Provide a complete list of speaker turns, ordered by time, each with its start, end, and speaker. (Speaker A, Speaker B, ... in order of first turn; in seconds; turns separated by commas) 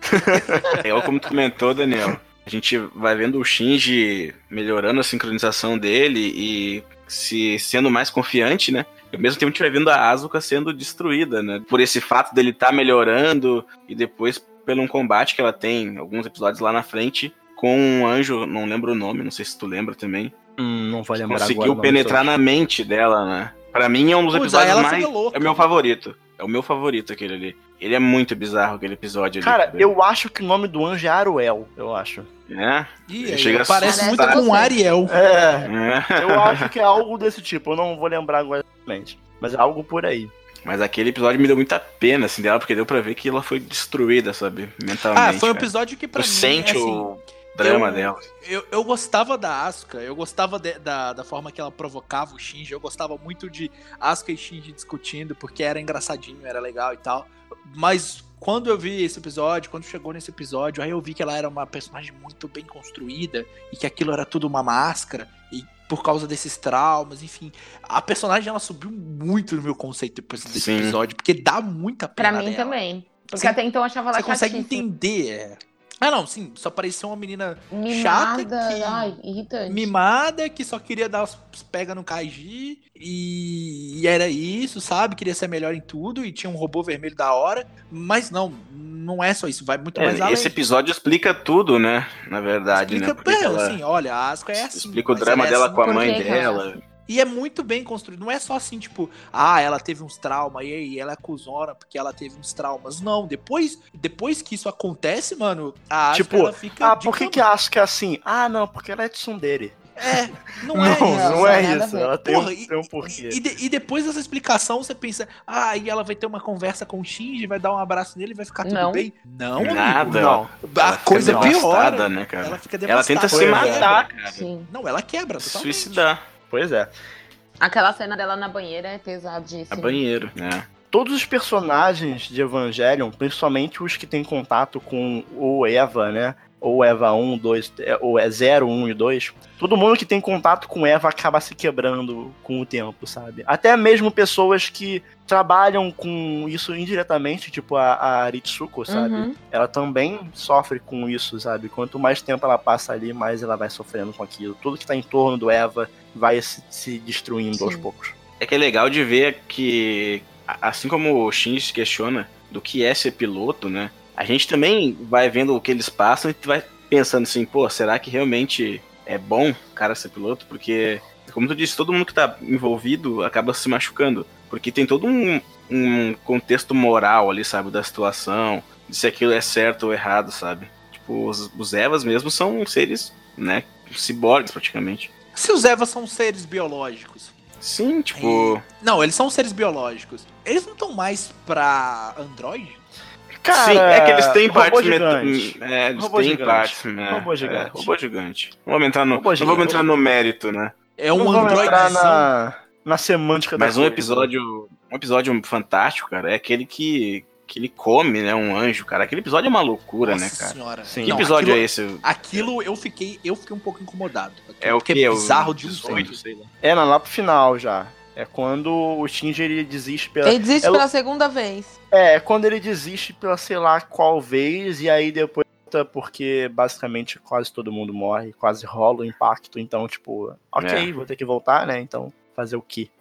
Speaker A: 0.1-0.6, Speaker B: 0.8-20.3, Speaker A: 20.6-22.2, Speaker B: 21.2-29.9, Speaker C: 24.3-25.7, Speaker A: 29.4-32.3, Speaker B: 32.5-34.4, Speaker C: 33.1-35.1, Speaker D: 33.8-34.7, Speaker A: 35.1-40.3, Speaker B: 35.7-36.7, Speaker B: 40.6-48.2, Speaker C: 45.1-72.8, Speaker B: 70.5-71.0, Speaker D: 72.2-74.8, Speaker C: 73.3-73.6, Speaker C: 74.1-79.2, Speaker D: 77.7-79.9, Speaker C: 79.7-90.5, Speaker B: 90.0-93.8, Speaker C: 92.7-96.5, Speaker B: 94.5-96.8, Speaker D: 95.8-96.7, Speaker C: 97.1-107.5, Speaker A: 106.1-109.8, Speaker C: 110.0-111.7, Speaker A: 110.7-113.4, Speaker D: 110.8-112.1, Speaker C: 112.2-124.1, Speaker D: 118.6-119.0, Speaker B: 119.6-124.4, Speaker A: 120.0-120.5, Speaker A: 121.1-121.5, Speaker A: 123.3-124.1, Speaker D: 124.3-124.7, Speaker C: 124.7-126.0, Speaker B: 125.4-126.2, Speaker A: 126.5-126.9, Speaker D: 127.6-130.0, Speaker B: 129.7-130.7, Speaker A: 130.9-158.1, Speaker D: 148.9-149.3, Speaker D: 157.5-157.8, Speaker B: 158.4-185.1, Speaker C: 185.3-187.3, Speaker B: 187.6-188.6, Speaker C: 188.1-192.8, Speaker A: 193.4-197.9, Speaker B: 193.5-200.7, Speaker A: 199.1-199.8, Speaker C: 201.0-202.3, Speaker A: 201.1-204.3, Speaker B: 201.4-201.9, Speaker B: 203.6-212.5, Speaker C: 210.0-216.2, Speaker A: 210.8-211.2, Speaker B: 214.6-216.5, Speaker A: 216.6-220.9, Speaker D: 220.2-221.7, Speaker A: 221.9-232.9, Speaker B: 230.6-230.9